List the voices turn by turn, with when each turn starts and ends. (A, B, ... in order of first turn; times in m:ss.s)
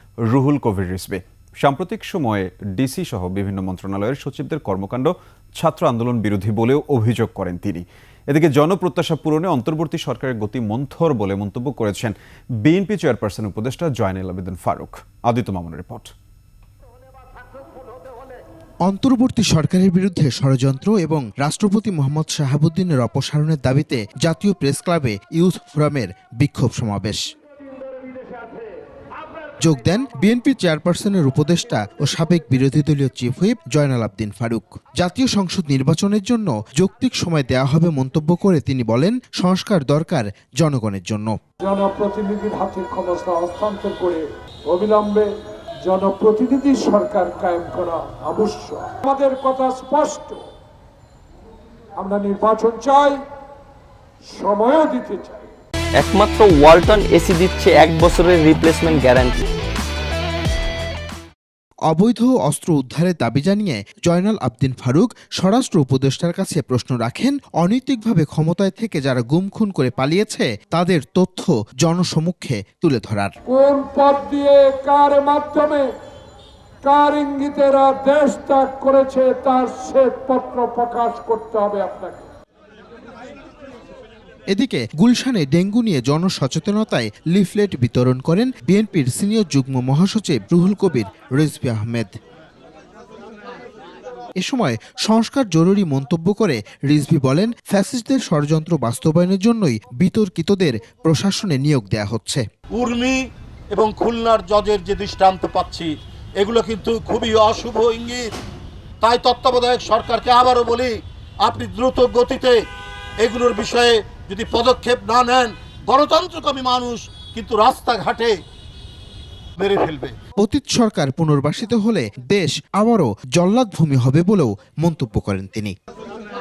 0:00.3-0:16.1 A
0:18.8-0:27.2 B
0:29.6-0:41.3 B
0:41.6-0:50.4 C
0:52.0-0:53.2 C
0:54.3-0:55.5 C
0:56.0-0:59.4 D
1:01.9-1:13.3 B
1:13.5-1:15.9 C
1:16.8-1:22.3 C
1:24.5-1:32.1 B
1:34.4-1:42.4 B
1:42.8-1:43.2 E
1:43.7-1:45.9 E
1:46.4-1:48.2 E
1:49.0-1:50.9 E
1:51.4-1:52.5 E
1:53.2-1:58.3 E
1:59.6-2:00.1 E
2:00.4-2:05.7 B